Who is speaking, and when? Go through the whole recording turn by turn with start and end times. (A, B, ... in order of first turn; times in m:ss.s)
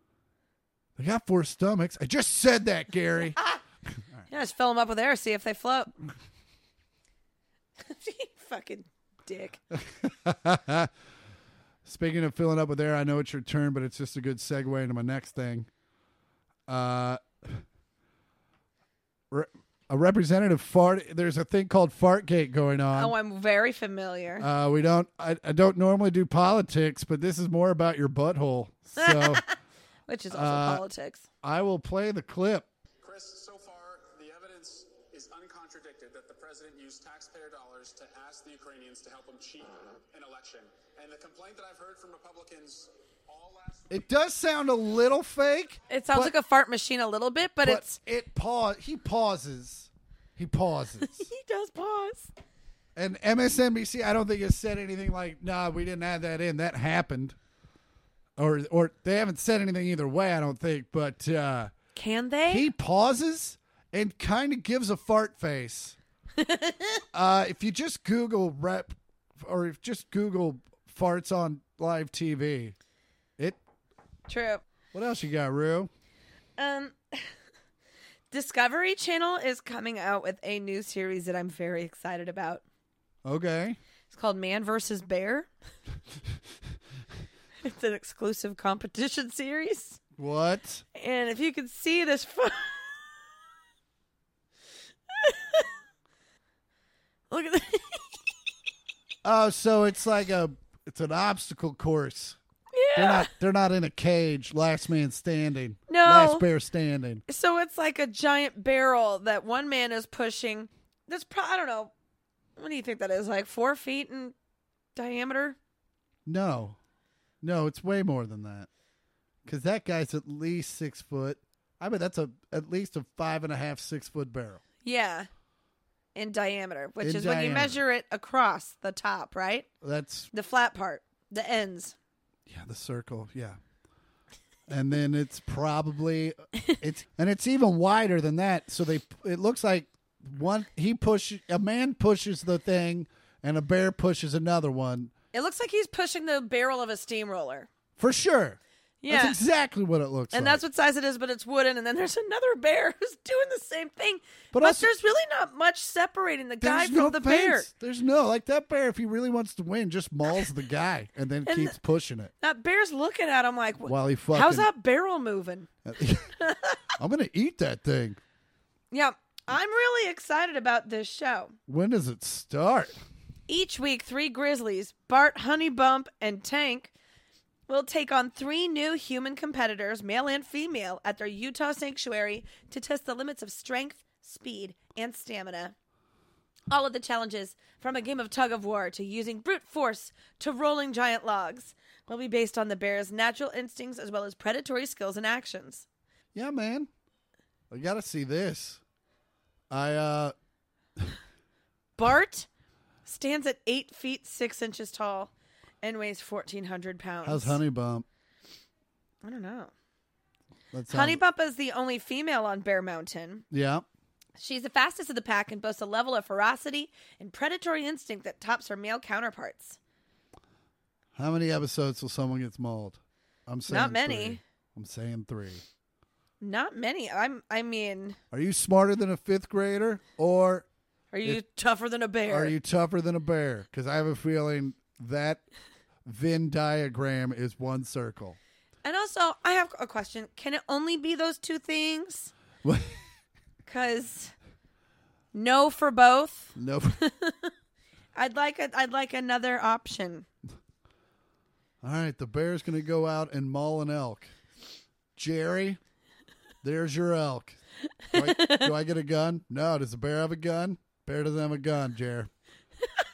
0:01.0-0:04.3 A
0:04.3-0:05.9 B
0:07.8-0:09.6 B
0:09.7-0:10.9 A
0:11.8-0:15.7 A
0:16.7-0:17.6 A
0:19.3-0:23.1 A
0:22.9-0:24.5 B
0:24.4-0:29.4 A
0:29.0-0:29.5 B
0:30.1-0:31.3 B
0:30.3-0:30.8 A
0:31.4-0:32.7 A
0:33.0-0:43.9 C
0:43.9-0:46.3 A
0:45.9-0:48.0 B
0:47.6-0:51.3 A
0:51.0-0:52.3 B
0:53.0-0:57.4 A
0:58.4-1:01.7 A
1:02.0-1:02.7 B
1:02.5-1:06.0 A
1:06.4-1:07.0 B
1:07.1-1:12.7 A
1:14.3-1:14.6 B
1:14.9-1:15.9 A
1:16.6-1:17.3 B
1:18.3-1:22.6 B
1:23.2-1:23.8 A
1:24.1-1:25.5 B
1:27.6-1:30.0 B
1:30.2-1:30.8 A
1:31.0-1:33.0 B
1:35.1-1:35.7 B
1:37.3-1:38.1 B
1:39.2-1:42.4 A
1:42.7-1:43.3 B
1:43.0-1:47.2 A
1:45.9-1:46.4 B
1:47.3-1:51.9 B
1:52.6-1:54.4 B
1:55.0-1:55.6 B
1:56.3-1:56.8 A
1:57.4-1:58.7 A
1:59.4-2:04.6 A
2:04.8-2:05.3 B
2:06.1-2:09.7 B
2:07.0-2:07.8 A
2:09.8-2:10.3 A
2:10.3-2:12.0 B
2:12.5-2:13.6 A
2:14.7-2:25.1 A
2:25.3-2:27.7 B
2:28.0-2:30.6 A
2:29.0-2:29.4 B
2:30.3-2:37.7 B
2:34.5-2:34.9 A
2:36.6-2:42.3 A
2:41.4-2:41.8 B
2:42.4-2:45.7 B
2:43.8-2:44.7 A
2:45.8-2:46.3 A
2:46.4-2:46.9 B
2:47.0-2:48.2 A
2:48.9-2:51.6 B
2:51.7-2:53.0 A
2:53.5-2:56.9 B
2:57.7-3:05.7 B
3:06.7-3:15.9 B
3:16.3-3:16.9 A
3:17.7-3:18.8 A
3:19.7-3:20.3 A
3:22.0-3:22.5 B
3:23.1-3:25.3 B
3:25.8-3:27.6 B
3:27.2-3:28.1 A
3:29.2-3:29.7 B
3:30.7-3:31.2 A
3:30.9-3:33.4 B
3:33.5-3:33.8 A
3:34.4-3:39.8 B
3:41.1-3:45.6 A
3:43.7-3:44.4 B
3:46.4-3:48.2 B
3:48.3-3:50.7 A
3:51.1-3:52.6 B
3:52.3-3:55.4 A
3:56.0-3:58.4 A
3:58.8-4:02.3 B
4:02.6-4:03.0 A
4:03.7-4:04.3 B
4:05.3-4:07.5 B
4:06.6-4:07.0 A
4:08.1-4:10.3 B
4:11.8-4:14.3 A
4:15.2-4:15.8 A
4:16.6-4:17.6 A
4:18.1-4:22.3 A
4:18.1-4:18.7 B